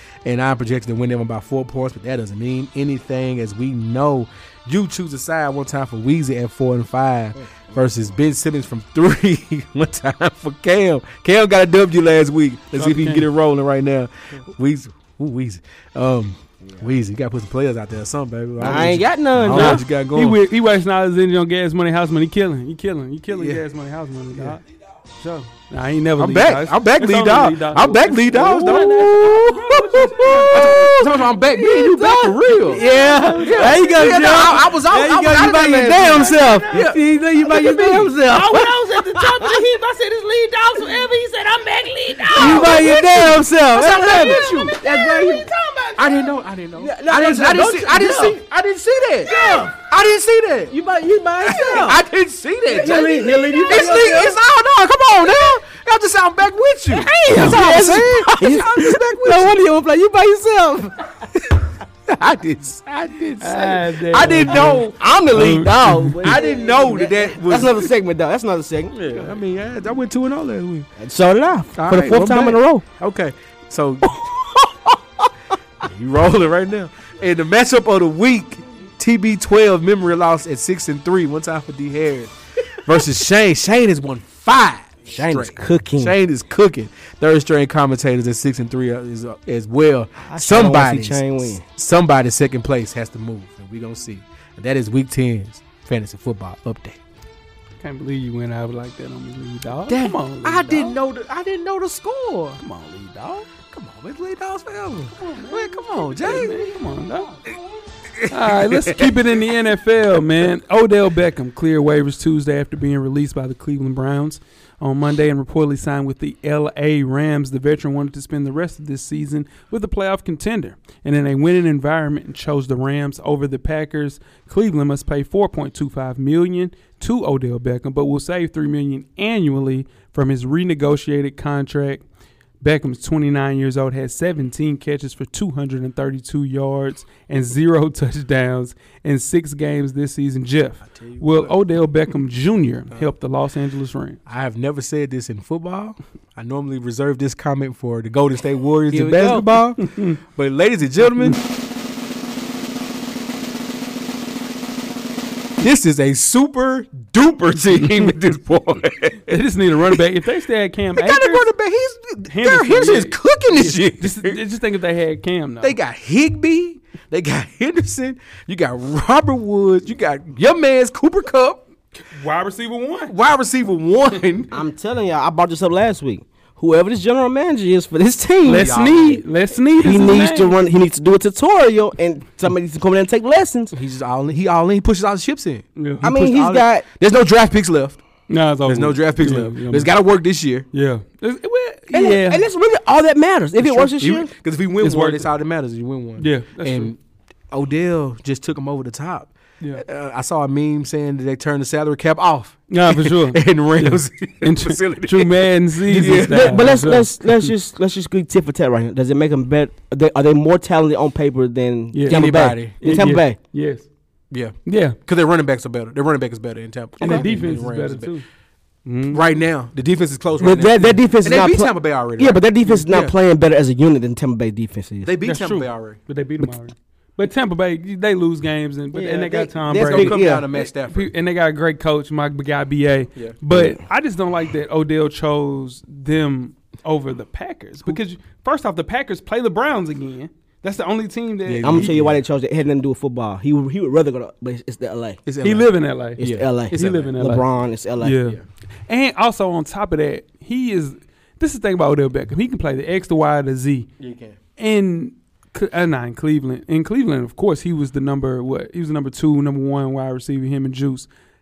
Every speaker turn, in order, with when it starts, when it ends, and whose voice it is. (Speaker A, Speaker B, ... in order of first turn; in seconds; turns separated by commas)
Speaker A: 0.2-20.4, Speaker B: 12.7-13.3, Speaker C: 18.6-19.9, Speaker B: 19.5-24.6, Speaker A: 23.3-23.6, Speaker B: 25.2-30.8, Speaker A: 26.2-38.1, Speaker C: 28.3-39.6, Speaker D: 32.7-33.9, Speaker B: 33.6-33.8, Speaker D: 36.2-36.8, Speaker D: 38.3-43.0, Speaker C: 42.2-45.5, Speaker A: 42.3-44.8, Speaker D: 44.0-46.1, Speaker A: 46.0-50.7, Speaker C: 46.8-48.4, Speaker C: 49.2-49.7, Speaker D: 49.3-49.7, Speaker C: 50.7-52.0, Speaker A: 51.4-59.6, Speaker C: 52.7-54.4, Speaker D: 53.0-53.7, Speaker C: 56.9-61.0, Speaker A: 62.1-65.1, Speaker B: 63.4-66.4, Speaker C: 64.5-69.0, Speaker A: 66.2-67.9, Speaker A: 68.9-70.9, Speaker C: 71.0-72.8, Speaker A: 71.8-74.2, Speaker C: 74.0-75.3, Speaker A: 75.8-97.0, Speaker C: 85.1-86.2, Speaker C: 90.2-91.6, Speaker B: 97.8-101.0, Speaker A: 99.9-102.6, Speaker B: 102.6-103.5, Speaker A: 103.7-106.7, Speaker B: 105.2-107.5, Speaker A: 108.2-109.1, Speaker B: 108.3-132.1, Speaker B: 132.6-144.2, Speaker A: 140.9-141.6, Speaker A: 144.3-151.5, Speaker C: 148.9-149.4, Speaker B: 148.9-150.2, Speaker A: 155.6-159.3, Speaker B: 159.3-161.5, Speaker A: 160.9-164.4, Speaker B: 162.3-165.8, Speaker A: 165.6-171.7, Speaker B: 172.1-173.1, Speaker A: 173.1-174.5, Speaker C: 174.5-179.1, Speaker B: 178.4-180.6, Speaker A: 178.5-179.2, Speaker C: 179.8-183.8, Speaker A: 183.7-188.0, Speaker B: 185.8-186.1, Speaker C: 186.0-186.8, Speaker B: 188.3-189.9, Speaker A: 188.7-190.7, Speaker B: 190.7-192.5, Speaker C: 191.9-194.3, Speaker A: 193.6-197.0, Speaker B: 194.8-195.3, Speaker B: 196.2-196.9, Speaker A: 197.5-206.7, Speaker B: 202.7-207.5, Speaker C: 205.9-213.4, Speaker B: 211.9-213.9, Speaker A: 212.1-212.8, Speaker A: 214.3-218.1, Speaker B: 214.7-215.0, Speaker B: 217.0-218.2, Speaker C: 217.0-217.3, Speaker B: 218.8-219.2, Speaker A: 219.1-223.1, Speaker C: 220.4-225.1, Speaker A: 225.0-226.0, Speaker B: 225.2-242.0, Speaker C: 228.9-230.5, Speaker A: 229.7-231.1, Speaker C: 233.5-233.8, Speaker A: 241.4-242.2, Speaker C: 241.6-245.2, Speaker A: 245.3-247.2, Speaker B: 245.4-247.4, Speaker C: 246.2-248.2, Speaker B: 248.0-253.9, Speaker A: 254.0-254.4, Speaker B: 254.6-261.1